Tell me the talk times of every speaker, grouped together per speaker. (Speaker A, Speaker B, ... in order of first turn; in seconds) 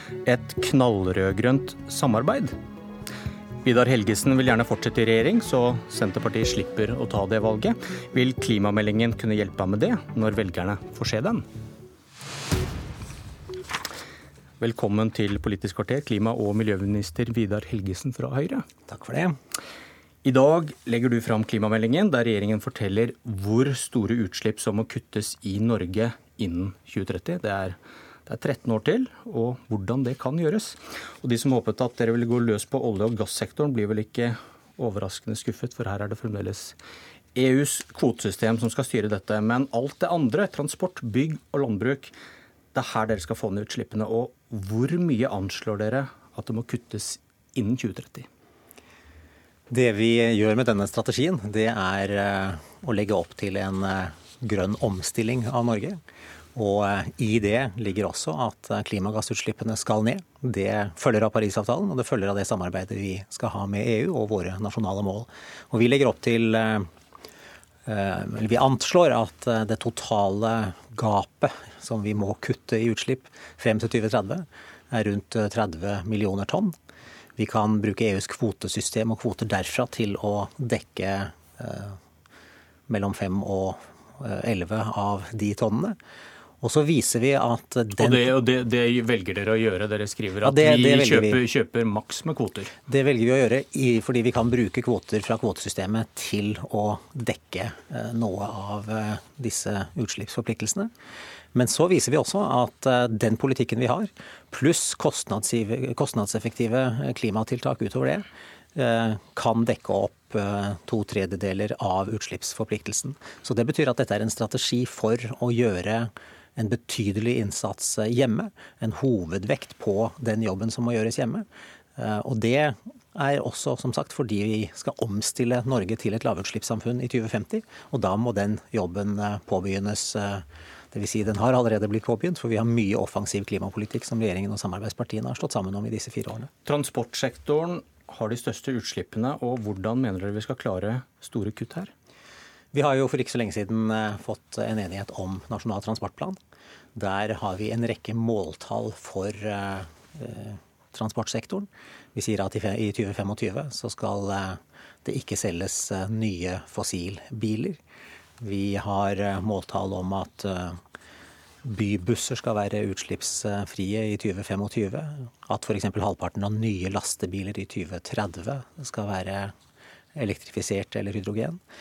Speaker A: 0.2-2.5, 3.6-11.4, 14.6-18.6, 20.2-36.8, 37.3-42.1, 42.7-48.3, 88.0-92.7, 136.6-141.9
Speaker B: 18.9-19.4, 49.7-56.0, 56.5-66.9, 67.8-76.7, 77.4-82.0, 82.9-86.0, 86.6-88.3, 90.4-91.4, 92.9-100.9, 101.5-121.4, 122.0-136.5, 142.7-146.4, 146.9-157.8, 158.4-160.8, 161.6-169.5, 170.1-171.6